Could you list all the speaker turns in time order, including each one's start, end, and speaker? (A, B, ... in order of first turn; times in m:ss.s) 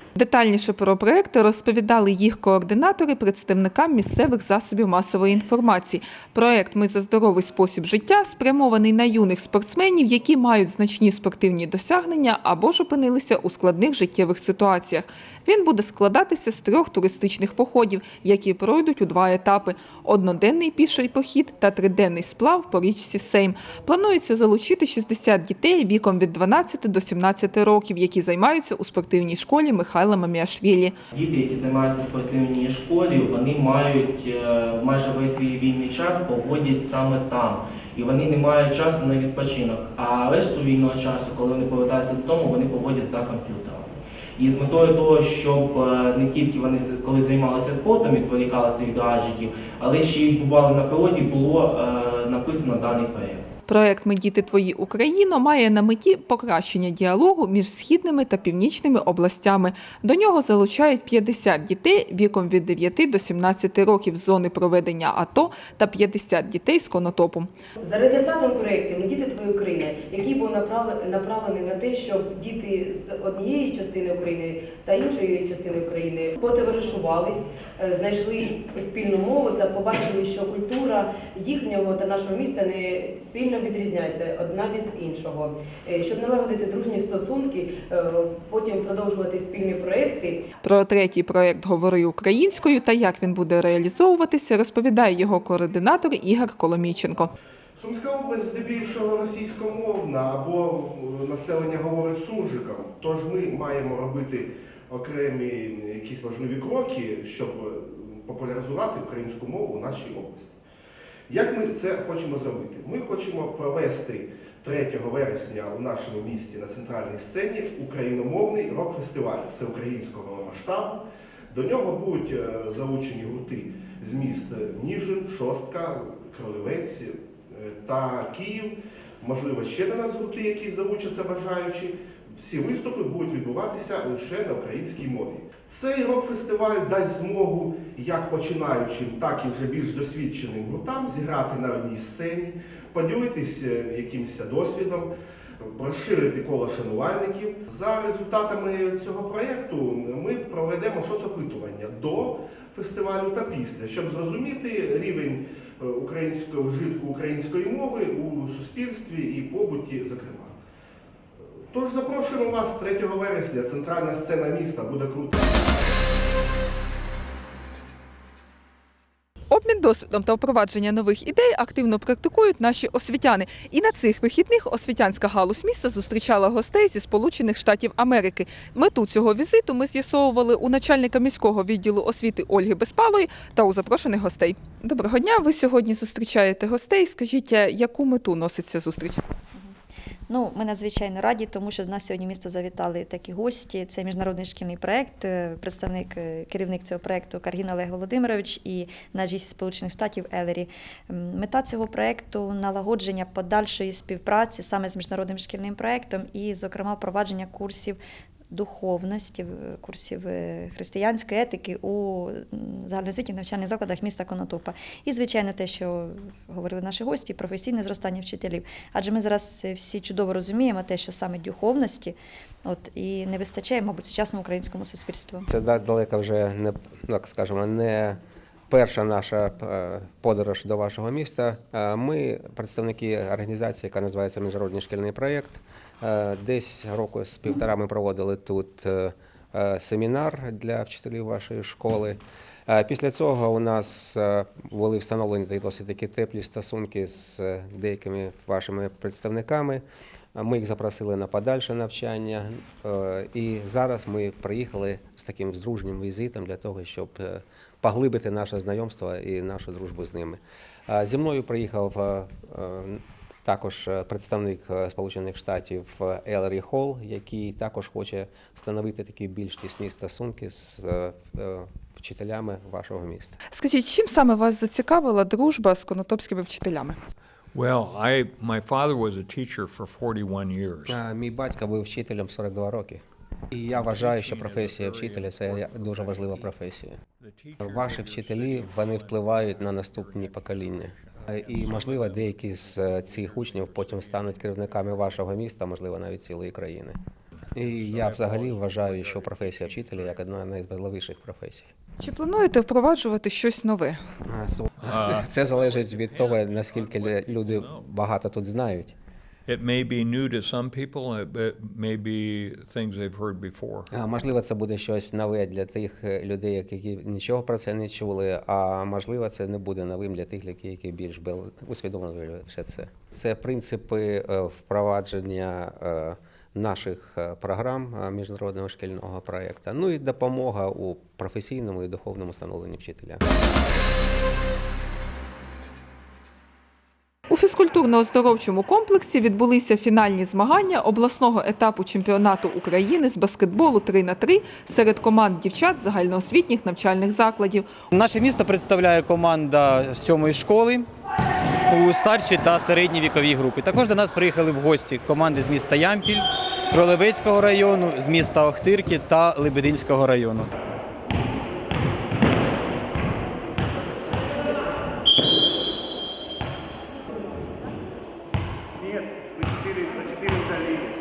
0:00.2-0:31.0 A
0:31.1-0:53.4 B
0:53.7-1:07.5 A
1:07.8-1:30.4 C
1:30.6-1:37.3 A
1:37.8-1:50.6 D
1:51.3-2:25.1 D
2:25.6-2:40.5 D
2:41.7-2:45.5 D
2:49.5-3:09.2 A
3:10.3-3:28.0 E
3:28.5-3:45.5 E
3:45.5-3:48.2 F
3:48.7-4:09.8 F
4:10.4-4:33.4 F
4:33.5-4:37.0 A
4:37.5-4:41.0 G
4:40.9-4:47.0 F
4:43.7-4:46.6 G
4:47.2-4:55.2 G
4:47.6-4:57.0 F
4:57.4-5:00.2 G
4:57.6-5:01.7 F
5:02.0-5:04.0 A
5:04.3-5:09.0 F
5:04.8-5:07.9 G
5:09.5-5:13.9 G
5:13.9-5:33.2 F
5:37.3-5:47.7 A
5:47.9-5:50.9 H
5:51.7-6:00.5 H